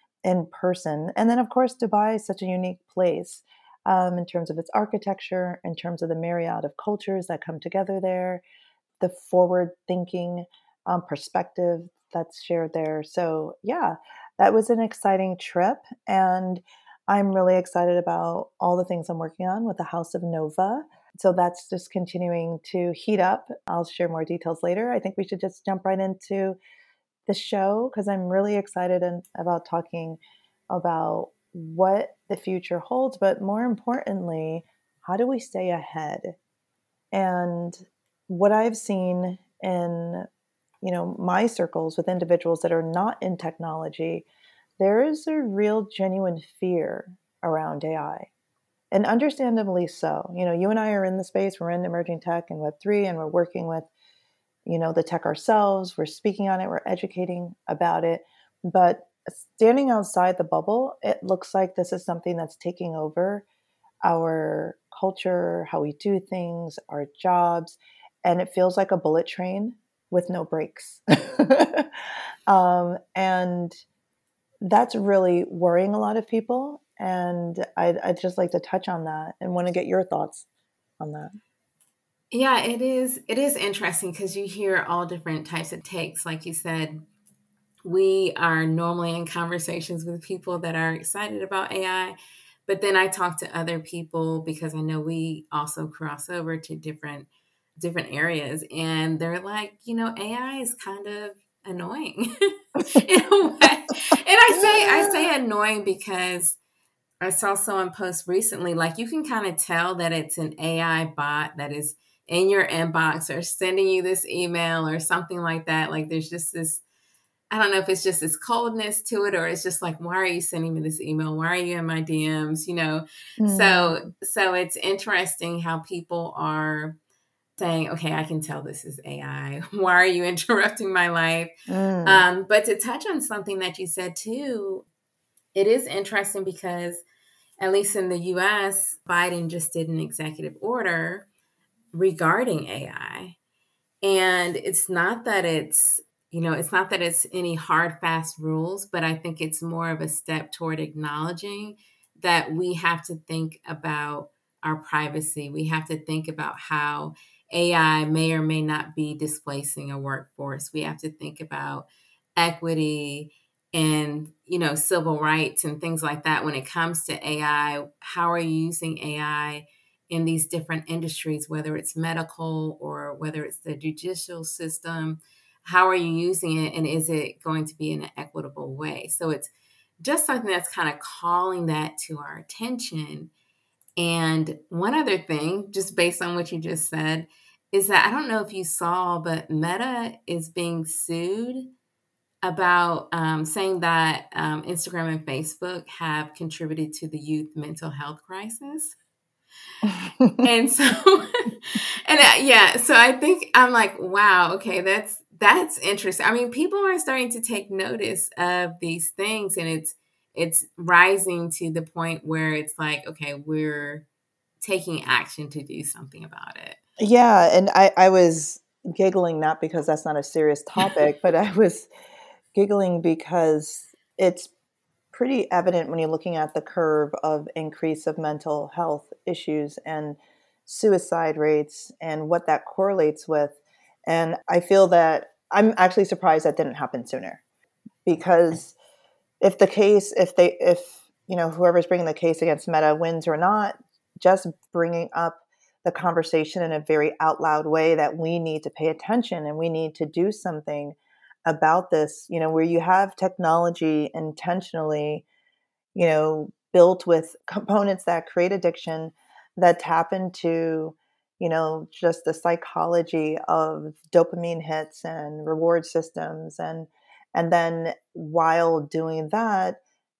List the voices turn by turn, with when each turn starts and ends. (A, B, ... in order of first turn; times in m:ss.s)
0:00.2-0:08.4 A
0:09.0-0:26.6 A
0:27.3-0:30.2 A
0:30.7-0:36.3 A
0:37.1-0:40.3 A
0:40.8-0:44.3 A
0:44.8-0:48.3 A
0:48.9-0:53.9 A
0:54.6-1:03.4 A
1:04.0-1:11.9 A
1:12.5-1:13.8 A
1:14.6-1:20.4 A
1:21.0-1:21.3 A
1:22.3-1:27.0 B
1:27.8-1:32.1 B
1:32.7-1:42.3 B
1:42.9-1:46.6 B
1:44.5-1:45.3 A
1:47.2-1:56.8 B
1:57.5-2:07.0 B
2:03.4-2:04.0 A
2:07.6-2:11.5 B
2:11.7-2:12.2 A
2:12.0-2:14.8 B
2:15.5-2:17.0 B
2:17.6-2:21.3 B
2:21.9-2:23.4 B
2:24.0-3:03.3 B
3:04.0-3:11.7 B
3:12.4-3:18.9 B
3:19.8-3:20.4 A
3:20.4-3:34.0 B
3:34.6-3:36.8 B
3:37.0-3:41.9 A
3:42.5-3:44.5 A
3:45.1-3:57.4 A
3:58.0-3:58.8 A
3:59.4-4:15.2 A
4:15.9-4:29.8 A